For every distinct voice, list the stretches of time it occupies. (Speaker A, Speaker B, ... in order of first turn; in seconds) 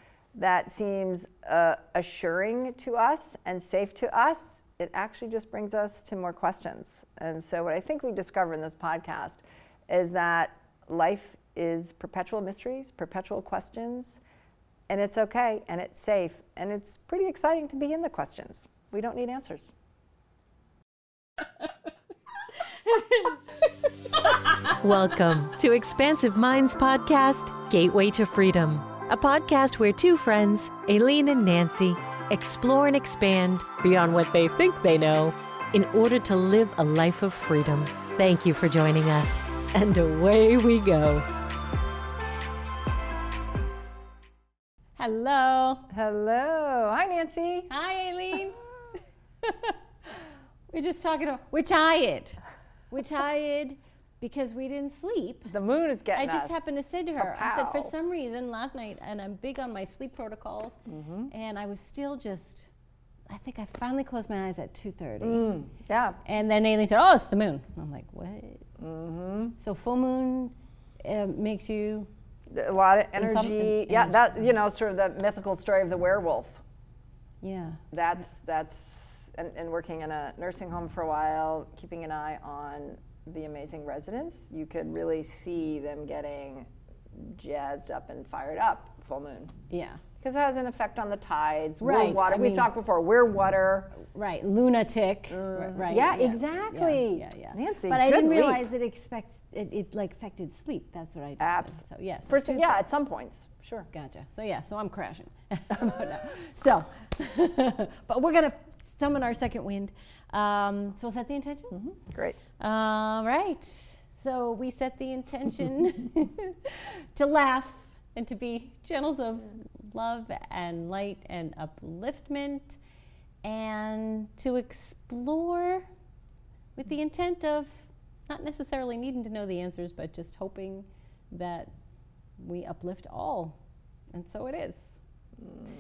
Speaker A: 0.3-14.2, 14.9-19.7, 45.9-47.7, 55.5-57.9, 60.9-61.3, 65.2-66.2, 68.8-69.5, 72.5-76.6, 77.9-89.5, 90.2-94.0, 95.3-98.7, 101.4-103.9, 111.7-112.4
Speaker B: 24.7-41.3
Speaker C: 45.0-45.9, 47.7-48.6, 49.4-55.5, 56.2-60.8, 61.3-62.7, 63.3-65.4, 66.2-68.7, 69.6-72.1, 73.2-74.2, 77.4-77.8, 89.7-90.0, 91.8-92.7, 94.0-102.8, 103.9-111.8, 112.6-122.8, 123.4-125.9, 126.8-131.7, 132.4-133.6, 134.1-134.9